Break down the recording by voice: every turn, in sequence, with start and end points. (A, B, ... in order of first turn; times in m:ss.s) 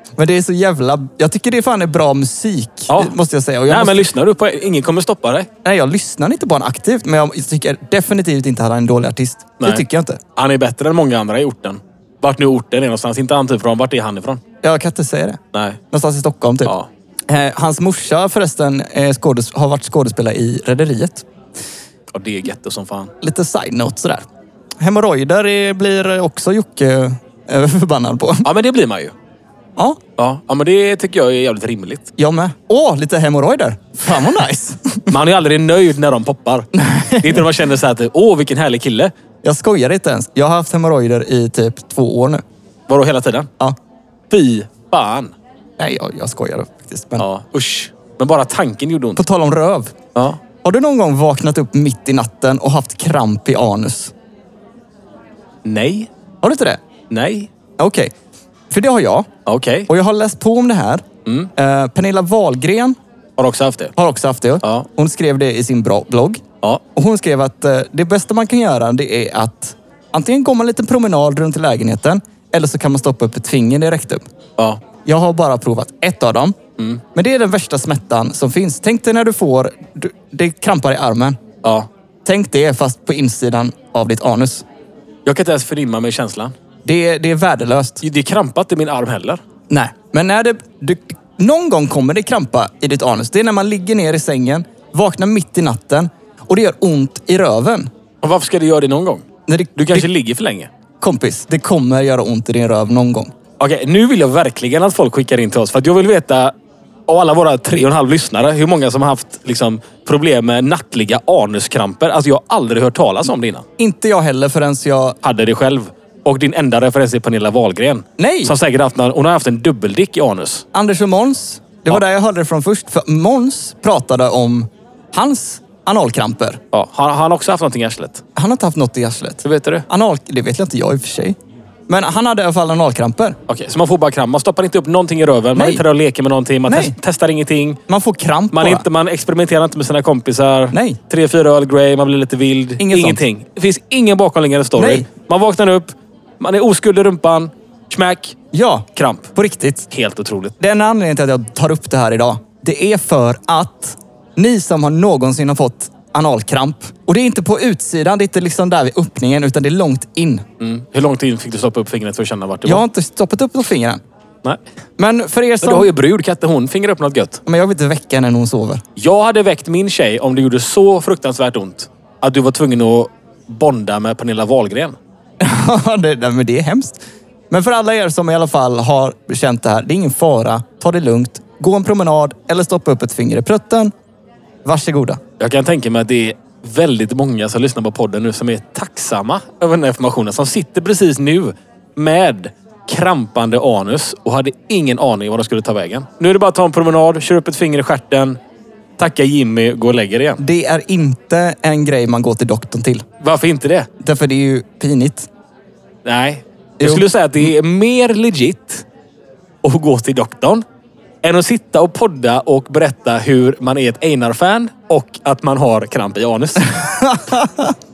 0:00.2-0:04.1 A
0:03.7-0:05.5 B
0:05.6-0:10.2 A
0:10.4-0:14.4 B
0:14.6-0:15.4 A
0:15.5-0:15.8 B
0:15.9-0:16.7 A
0:17.3-0:21.2 A
0:22.1-0:23.1 B
0:23.2-0:24.2 A
0:24.8-0:28.5 A
0:28.4-0:29.1 B
0:30.2-0:32.1 B
0:32.2-0:35.1 A
0:35.1-0:36.7 B
0:36.8-0:37.4 A
0:37.2-0:39.1 B
0:39.4-0:42.4 A
0:42.9-0:43.5 B
0:44.3-0:45.3 B
0:45.8-0:47.2 A
0:47.2-0:49.2 B
0:49.2-0:49.9 A
0:50.6-0:54.1 A
0:55.6-0:56.1 B
0:56.4-0:56.8 A
0:57.1-0:57.5 B
0:57.8-0:58.1 A
0:58.7-0:59.3 A
0:59.5-0:59.9 B
0:59.9-1:01.0 A
1:01.6-1:03.0 A
1:03.4-1:03.9 B
1:04.0-1:06.4 A
1:07.0-1:14.2 A
1:15.0-1:16.6 A
1:17.2-1:21.4 A
1:22.2-1:24.6 A
1:25.3-1:26.5 B
1:26.8-1:28.0 A
1:28.0-1:29.4 B
1:29.7-1:37.9 A
1:38.2-1:39.2 B
1:39.5-1:40.1 A
1:39.8-1:40.7 B
1:41.0-1:43.3 A
1:43.6-1:46.5 B
1:47.1-1:53.6 B
1:53.8-1:55.2 A
1:55.2-2:00.6 B
1:58.2-1:58.5 A
2:00.7-2:06.6 A
2:06.7-2:08.2 B
2:08.4-2:11.4 A
2:09.4-2:09.9 B
2:11.9-2:13.4 A
2:13.5-2:17.8 B
2:15.6-2:15.8 A
2:16.7-2:17.0 A
2:17.9-2:18.8 A
2:18.5-2:28.4 B
2:20.7-2:21.0 A
2:22.8-2:23.2 A
2:24.8-2:25.1 A
2:28.5-2:29.9 A
2:29.0-2:29.3 B
2:29.9-2:30.5 B
2:30.6-2:40.4 A
2:40.6-2:42.8 B
2:42.6-2:44.0 A
2:45.0-2:45.9 A
2:45.6-2:47.4 B
2:47.5-2:48.8 A
2:49.0-2:55.0 B
2:55.4-2:57.0 A
2:57.5-3:03.9 A
3:04.6-3:05.2 A
3:05.4-3:18.4 B
3:19.0-3:20.4 B
3:20.4-3:23.0 A
3:23.2-3:23.9 B
3:24.0-3:25.3 A
3:26.0-3:28.8 B
3:26.8-3:27.1 A
3:29.6-3:30.6 B
3:31.2-3:36.7 B
3:36.8-3:37.8 A